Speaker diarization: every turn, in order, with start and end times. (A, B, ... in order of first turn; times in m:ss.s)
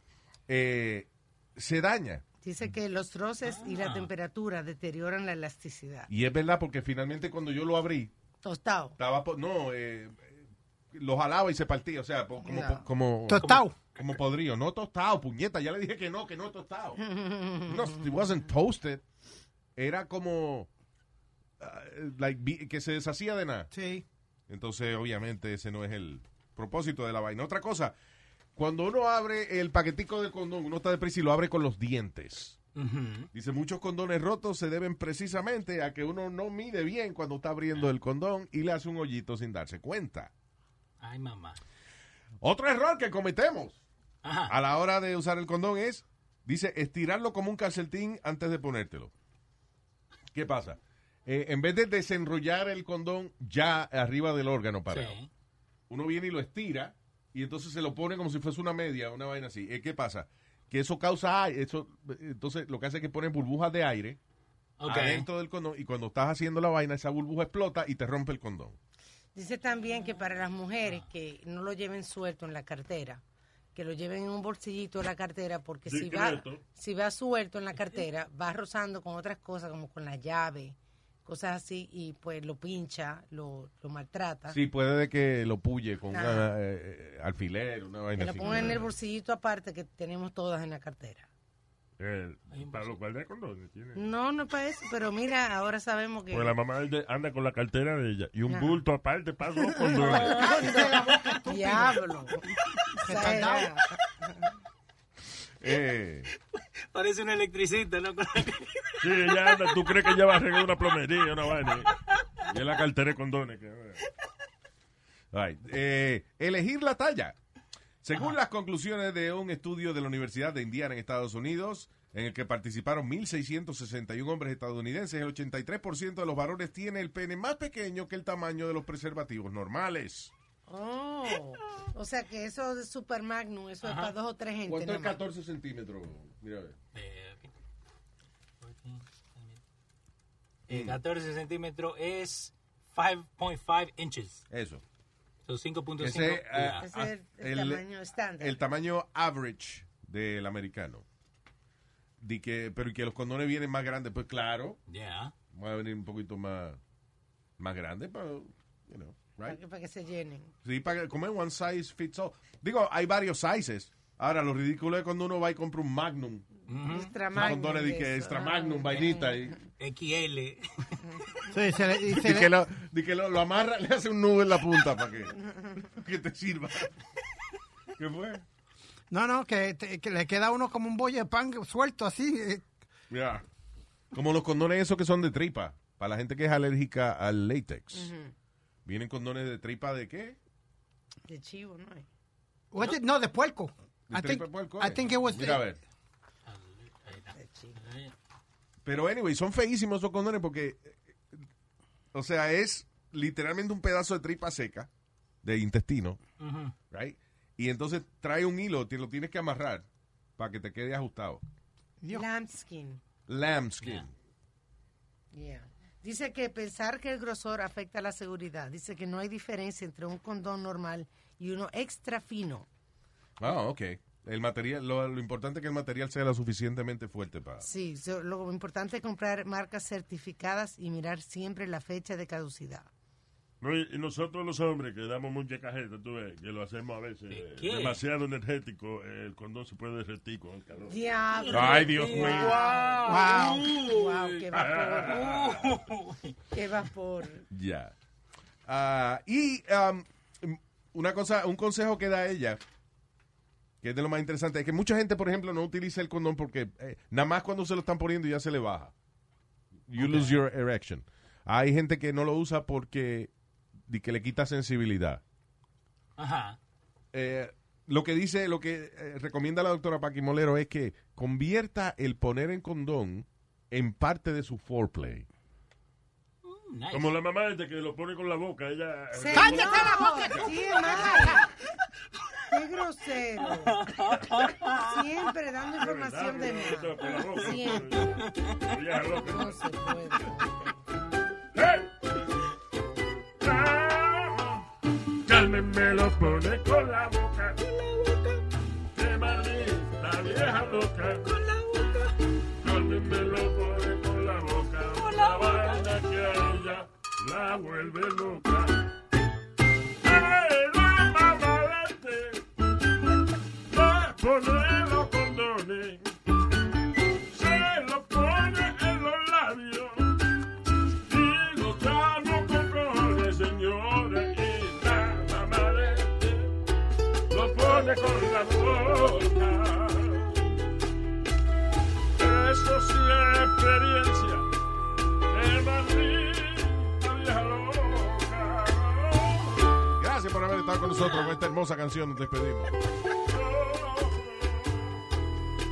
0:00.5-0:02.2 A
0:02.4-0:06.1 B
0:03.4-0:04.1 C
0:06.1-0:08.1 A
0:08.4-0:09.0 B
0:09.0-0:10.4 A
0:10.9-0:17.0 A
0:12.4-0:12.8 B
0:13.3-0:13.8 D
0:13.3-0:14.2 C
0:17.0-0:18.0 B
0:17.6-0:19.0 A
0:19.8-0:20.7 A
0:21.6-0:23.7 A
0:23.7-0:24.0 D
0:24.5-0:27.9 A
0:28.6-0:32.6 A
0:32.8-0:33.3 C
0:33.3-0:40.3 A
0:41.0-0:41.6 C
0:42.4-0:43.8 A
0:44.2-0:44.6 C
0:44.5-0:49.1 A
0:50.3-0:55.2 A
0:54.9-0:55.3 C
0:55.9-1:04.2 A
1:04.8-1:05.3 C
1:04.8-1:08.8 A
1:09.3-1:13.2 B
1:13.7-1:24.6 B
1:15.8-1:16.6 E
1:24.5-1:28.9 A
1:26.1-1:26.5 B
1:28.2-1:31.3 B
1:32.0-1:34.0 E
1:32.5-1:33.0 C
1:33.9-1:36.6 B
1:36.3-1:40.4 E
1:38.5-1:38.8 B
1:39.7-1:44.5 B
1:40.0-1:40.3 C
1:40.1-1:42.0 D
1:43.0-1:43.8 D
1:45.6-1:46.3 A
1:46.3-1:50.1 C
1:49.0-1:51.9 E
1:52.4-1:54.0 E
1:55.3-1:57.4 A
1:58.0-2:10.3 A
2:10.7-2:15.2 B
2:13.8-2:14.1 C
2:14.7-2:16.7 A
2:16.9-2:17.5 C
2:18.6-2:19.6 C
2:20.7-2:24.4 C
2:20.7-2:21.0 A
2:24.5-2:24.8 A
2:25.4-2:26.8 C
2:26.0-2:27.8 A
2:26.8-2:28.6 B
2:28.4-2:31.0 A
2:32.2-2:34.8 A
2:34.9-2:35.3 C
2:35.5-2:36.8 A
2:37.6-2:39.6 A
2:39.4-2:40.5 B
2:40.6-2:46.5 A
2:46.7-2:47.1 C
2:46.8-2:49.5 B
2:47.3-2:49.6 A
2:49.8-2:51.3 C
2:51.5-2:52.5 D
2:52.1-2:56.9 A
2:58.0-2:58.4 A
2:59.1-3:02.6 D
3:03.1-3:03.4 A
3:04.1-3:08.1 A
3:07.9-3:08.3 B
3:08.8-3:10.4 A
3:11.3-3:12.1 B
3:12.7-3:15.6 D
3:14.1-3:15.8 A
3:16.5-3:18.1 C
3:17.4-3:17.8 B
3:18.8-3:21.0 A
3:22.1-3:24.9 A
3:25.4-3:26.2 A
3:26.4-3:26.7 C
3:26.9-3:29.8 A
3:30.4-3:31.4 A
3:32.0-3:32.3 D
3:32.1-3:33.0 B
3:33.3-3:34.1 A
3:35.3-3:42.7 B
3:43.4-3:47.6 A
3:47.6-3:52.9 B
3:53.6-4:01.0 E
3:57.3-3:58.0 C
4:00.9-4:05.5 B
4:01.5-4:06.3 C
4:01.5-4:02.6 A
4:02.1-4:02.9 E
4:03.1-4:03.7 D
4:04.5-4:05.8 E
4:06.5-4:07.4 B
4:07.5-4:07.9 A
4:08.6-4:12.6 A
4:13.8-4:18.9 A
4:19.9-4:23.3 A
4:20.0-4:20.4 C
4:23.9-4:25.2 A
4:26.2-4:26.6 C
4:27.1-4:35.3 A
4:36.4-4:37.1 C
4:36.9-4:40.4 E
4:39.1-4:41.4 B
4:39.3-4:41.4 D
4:42.5-4:44.2 B
4:43.6-4:45.1 C
4:44.8-4:48.0 B
4:45.7-4:49.7 E
4:48.0-4:48.6 C
4:49.1-4:50.8 B
4:51.5-4:51.9 E
4:53.4-4:54.7 E
4:55.2-4:57.6 E
4:57.6-4:58.4 C
4:58.9-5:01.3 E
5:01.2-5:02.2 C
5:02.5-5:08.9 E
5:04.9-5:05.9 C
5:10.0-5:12.4 E
5:13.6-5:16.1 E
5:17.2-5:20.3 E
5:20.9-5:26.5 E
5:27.3-5:30.5 E
5:32.2-5:34.5 E
5:35.3-5:39.8 E
5:40.0-5:42.7 A
5:41.0-5:41.3 C
5:43.2-5:45.0 E